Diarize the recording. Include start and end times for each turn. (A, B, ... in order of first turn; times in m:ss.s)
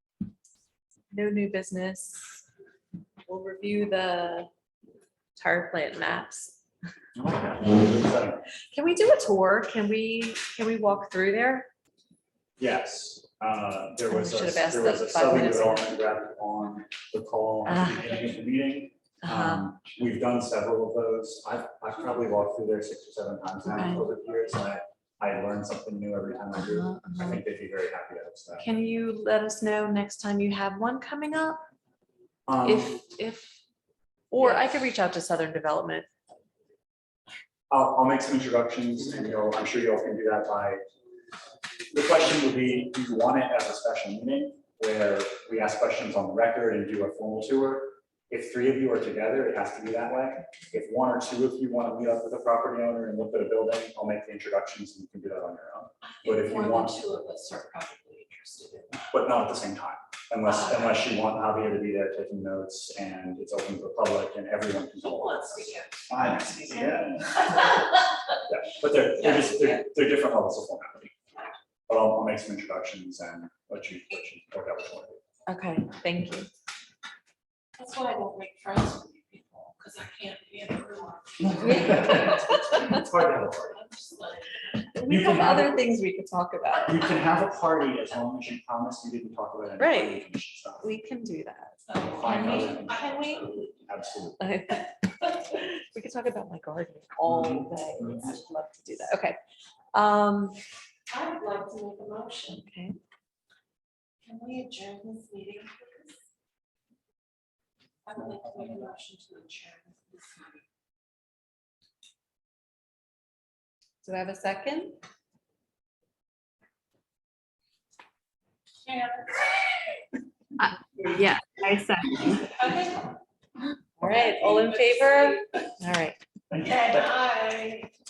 0:01.1-0:02.4 A
0:03.3-0:04.5 A
0:05.4-0:06.6 A
0:07.1-0:08.4 B
0:08.7-0:11.7 A
0:12.6-0:28.7 B
0:14.0-0:15.9 A
0:17.6-0:18.2 A
0:19.2-0:19.6 A
0:23.7-0:24.0 A
0:26.6-0:27.4 A
0:28.6-0:31.6 A
0:32.5-0:33.0 B
0:32.6-0:33.6 A
0:34.3-0:36.1 A
0:37.7-0:40.8 B
0:41.9-0:57.0 B
0:56.0-0:59.0 C
0:59.1-1:07.6 B
1:00.5-1:00.9 C
1:04.9-1:07.6 C
1:08.5-1:11.1 B
1:09.2-1:09.6 C
1:11.9-1:15.2 B
1:15.5-1:16.5 A
1:17.8-1:22.6 C
1:21.4-1:23.8 B
1:21.6-1:22.9 A
1:23.7-1:24.6 C
1:24.9-1:27.1 A
1:25.0-1:25.9 B
1:26.8-1:30.9 B
1:29.8-1:30.2 A
1:30.8-1:32.7 A
1:31.9-1:33.6 C
1:32.0-1:34.4 B
1:34.4-1:34.9 A
1:35.4-1:39.4 A
1:37.3-1:38.2 B
1:39.9-1:40.6 A
1:41.1-1:42.6 C
1:42.5-1:43.0 A
1:44.2-1:46.0 C
1:48.0-1:50.6 C
1:54.0-1:55.0 A
1:58.8-2:00.0 C
2:00.6-2:02.5 A
2:02.4-2:03.1 C
2:04.0-2:06.2 A
2:04.4-2:04.8 C
2:06.5-2:07.2 B
2:06.6-2:07.9 C